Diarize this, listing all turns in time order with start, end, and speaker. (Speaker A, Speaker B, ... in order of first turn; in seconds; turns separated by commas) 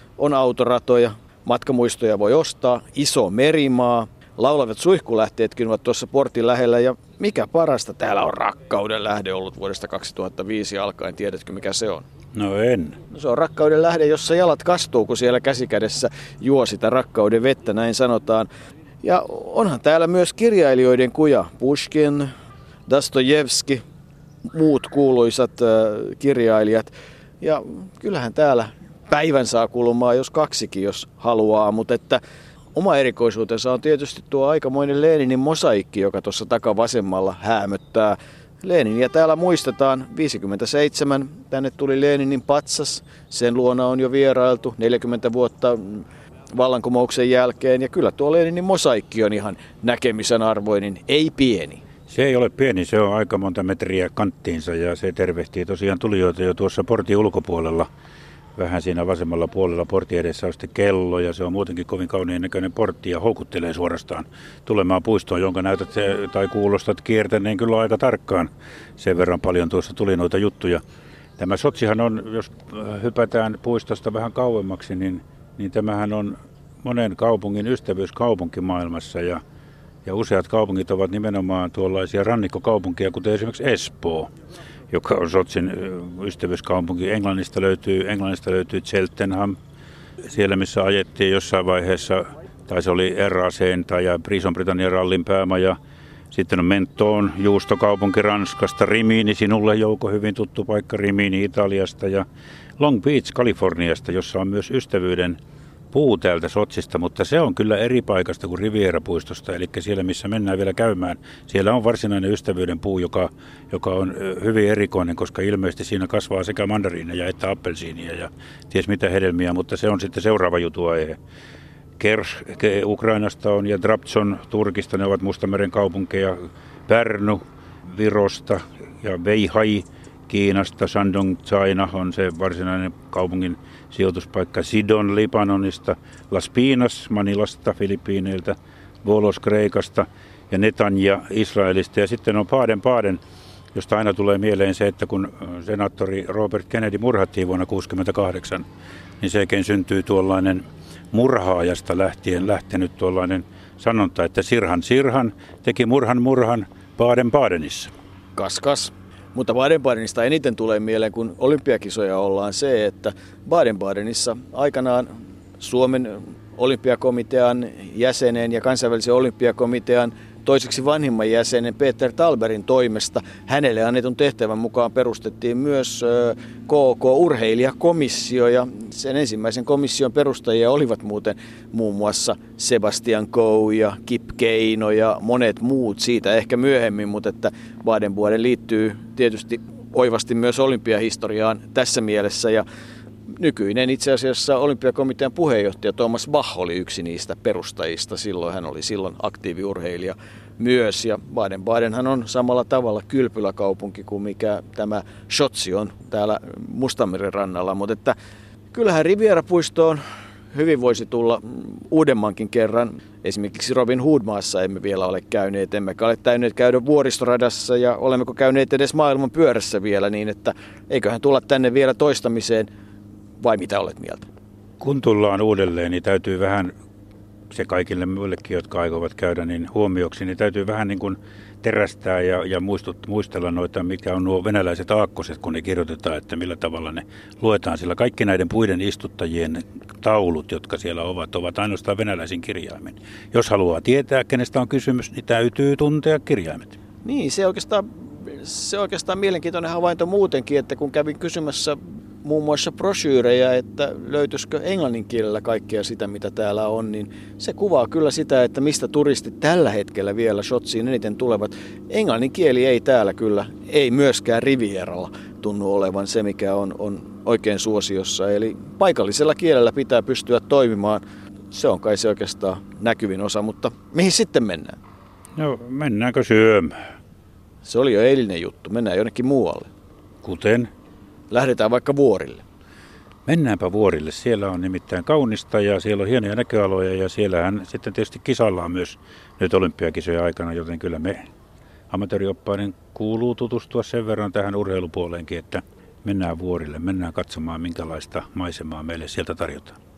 Speaker A: 0.2-12.0, Speaker B: 12.3-13.0, Speaker A: 13.1-18.5, Speaker A: 19.0-22.3, Speaker A: 22.9-23.8, Speaker A: 24.5-32.2, Speaker A: 32.7-46.0, Speaker A: 46.5-51.8, Speaker B: 52.1-57.9, Speaker B: 58.5-70.8, Speaker B: 71.4-79.4, Speaker B: 80.0-84.3, Speaker B: 84.9-89.5, Speaker B: 90.3-95.8, Speaker B: 96.3-102.2, Speaker B: 102.8-105.4, Speaker B: 105.9-121.2, Speaker B: 122.0-143.2, Speaker B: 143.7-148.6, Speaker B: 149.2-157.9, Speaker A: 158.3-192.6, Speaker A: 193.4-208.1, Speaker A: 208.7-210.0, Speaker A: 210.5-222.7, Speaker A: 223.4-224.3, Speaker B: 224.8-226.7, Speaker B: 227.5-246.8, Speaker A: 247.0-274.8, Speaker B: 275.4-276.7, Speaker A: 277.6-279.7, Speaker B: 280.2-280.7, Speaker A: 281.3-282.4, Speaker B: 283.2-291.2, Speaker B: 291.9-299.8